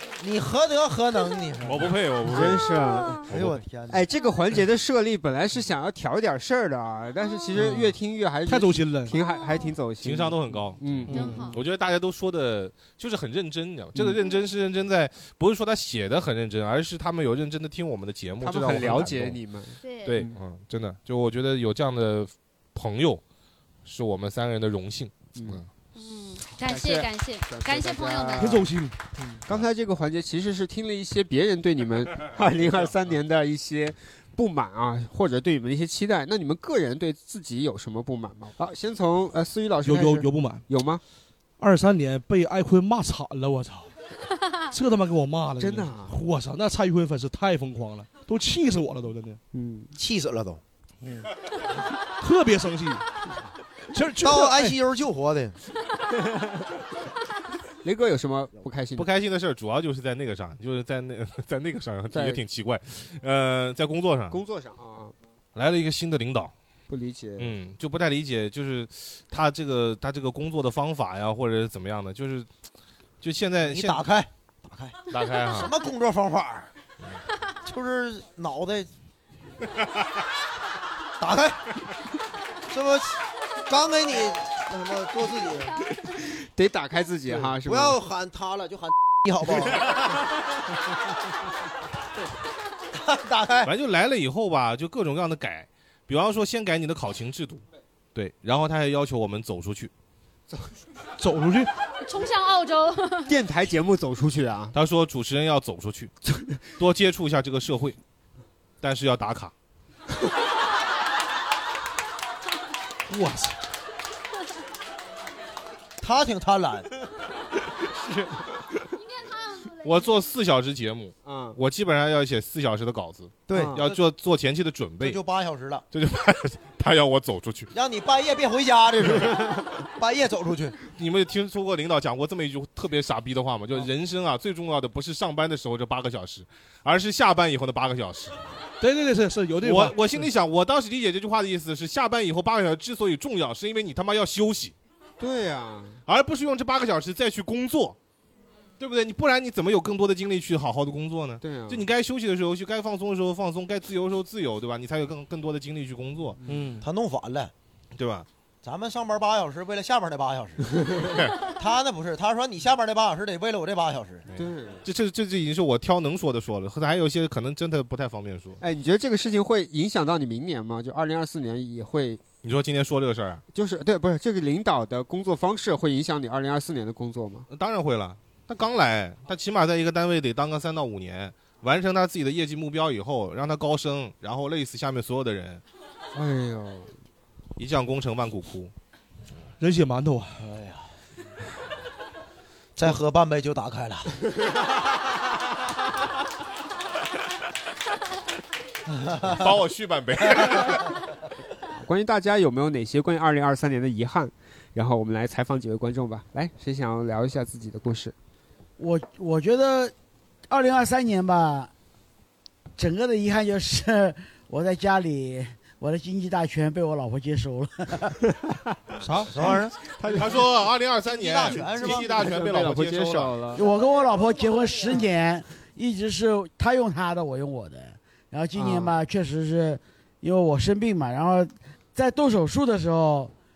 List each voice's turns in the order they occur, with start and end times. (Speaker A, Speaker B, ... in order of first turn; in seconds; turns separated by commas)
Speaker A: 0.2-1.9, Speaker B: 1.6-2.8, Speaker C: 2.3-11.5, Speaker D: 2.7-3.2, Speaker B: 3.3-3.6, Speaker A: 3.3-4.0, Speaker E: 7.5-7.9, Speaker E: 8.5-9.1, Speaker D: 9.1-9.7, Speaker B: 10.0-19.4, Speaker E: 11.1-11.3, Speaker D: 11.1-11.6, Speaker C: 18.4-20.4, Speaker D: 19.8-20.2, Speaker B: 20.0-23.2, Speaker B: 23.8-25.7, Speaker C: 25.4-25.6, Speaker D: 25.9-28.6, Speaker C: 26.6-28.7, Speaker E: 28.4-29.1, Speaker C: 29.3-41.0, Speaker E: 39.8-40.6, Speaker E: 41.6-43.9, Speaker E: 44.7-49.4, Speaker C: 45.6-46.2, Speaker C: 49.5-49.9, Speaker A: 50.0-50.6, Speaker E: 51.0-51.3, Speaker E: 52.2-53.0, Speaker E: 53.9-54.8, Speaker A: 54.2-55.6, Speaker C: 57.8-59.1, Speaker B: 59.0-64.4, Speaker C: 62.1-62.4, Speaker C: 64.3-65.1, Speaker B: 65.5-66.5, Speaker C: 66.9-67.5, Speaker B: 67.4-72.5, Speaker B: 73.2-74.0, Speaker A: 73.6-76.7, Speaker B: 75.1-75.7, Speaker A: 77.6-78.9, Speaker A: 81.2-81.6, Speaker A: 82.7-85.8, Speaker C: 86.5-88.0, Speaker A: 87.3-90.0, Speaker A: 93.0-93.7, Speaker B: 93.6-97.6, Speaker B: 98.1-99.9, Speaker E: 101.2-101.7, Speaker D: 102.0-103.3, Speaker C: 103.3-104.7, Speaker B: 104.7-106.1, Speaker B: 106.8-108.0, Speaker B: 108.8-109.5, Speaker E: 113.1-113.5, Speaker A: 116.0-116.9, Speaker D: 118.9-120.2, Speaker B: 119.8-125.2, Speaker C: 121.2-121.6, Speaker A: 123.5-123.9, Speaker C: 123.5-123.8, Speaker A: 125.0-125.8, Speaker B: 125.9-127.7, Speaker A: 127.7-130.8, Speaker B: 130.9-138.3, Speaker E: 138.8-140.2, Speaker B: 139.6-144.7, Speaker C: 145.2-146.0, Speaker B: 146.1-147.9, Speaker B: 148.8-156.4, Speaker C: 151.4-151.8, Speaker C: 156.4-156.8, Speaker A: 156.8-157.5, Speaker B: 157.9-158.3, Speaker A: 158.6-160.9, Speaker A: 161.4-164.2, Speaker B: 164.3-168.6, Speaker C: 164.4-164.8, Speaker C: 168.6-172.2, Speaker B: 172.4-173.4, Speaker C: 173.5-177.4, Speaker B: 177.5-185.6, Speaker C: 186.1-186.9, Speaker B: 187.6-188.7, Speaker E: 189.6-190.4, Speaker A: 190.4-190.8, Speaker A: 192.8-194.2, Speaker A: 198.9-199.4, Speaker B: 199.3-200.9, Speaker C: 201.8-208.1, Speaker F: 208.8-209.9, Speaker F: 210.5-211.7, Speaker F: 212.8-218.1, Speaker E: 219.0-219.4, Speaker A: 219.3-219.7, Speaker C: 219.4-220.5, Speaker B: 220.1-223.4, Speaker A: 221.0-222.5, Speaker C: 221.5-223.6, Speaker F: 223.5-233.3, Speaker C: 228.5-228.9